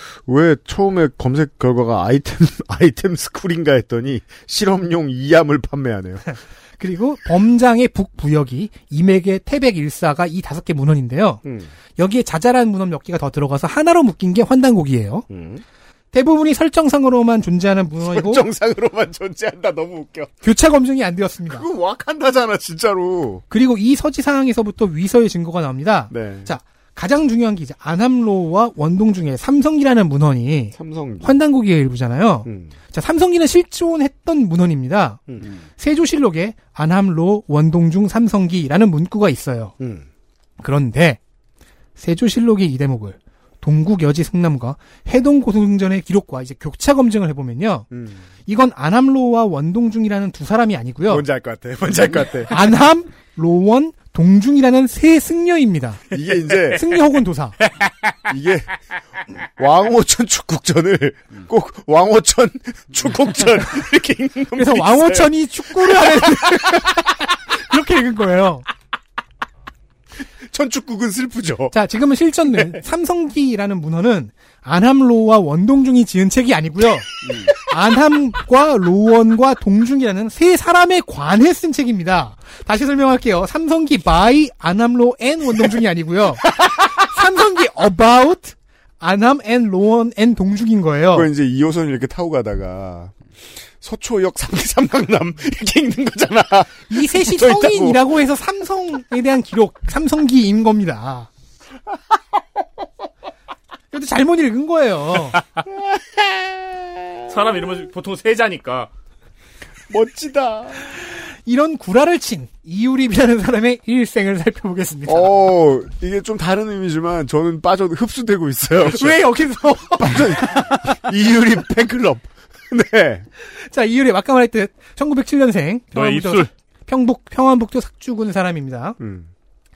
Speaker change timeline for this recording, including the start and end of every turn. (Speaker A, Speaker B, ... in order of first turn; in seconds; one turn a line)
Speaker A: 0.3-6.2
Speaker B: 6.2-11.4
Speaker A: 11.4-11.7
Speaker B: 12.0-15.3
Speaker A: 15.3-15.6
Speaker B: 16.1-18.4
Speaker A: 18.0-20.3
Speaker B: 20.4-21.7
Speaker A: 21.5-23.4
Speaker B: 23.5-35.2
Speaker A: 26.1-26.5
Speaker A: 30.7-31.4
Speaker A: 32.5-32.7
Speaker B: 35.8-39.7
Speaker A: 39.8-40.0
Speaker B: 40.6-41.2
Speaker B: 42.0-47.9
Speaker A: 47.9-48.2
Speaker B: 48.5-51.2
Speaker A: 51.1-52.7
Speaker B: 52.5-56.0
Speaker A: 56.1-56.9
Speaker B: 56.7-57.6
Speaker A: 58.2-58.7
Speaker A: 59.6-66.9
Speaker B: 64.5-68.7
Speaker A: 70.4-71.7
Speaker B: 71.7-91.3
Speaker A: 72.5-72.8
Speaker A: 91.1-93.1
Speaker A: 93.8-98.1
Speaker B: 96.9-101.3
Speaker B: 103.9-105.4
Speaker A: 105.7-106.8
Speaker C: 107.3-108.9
Speaker A: 109.9-110.8
Speaker B: 111.4-115.3
Speaker A: 115.1-119.3
Speaker B: 118.8-120.6
Speaker A: 119.8-123.2
Speaker B: 123.4-129.0
Speaker C: 126.0-126.5
Speaker A: 129.0-129.3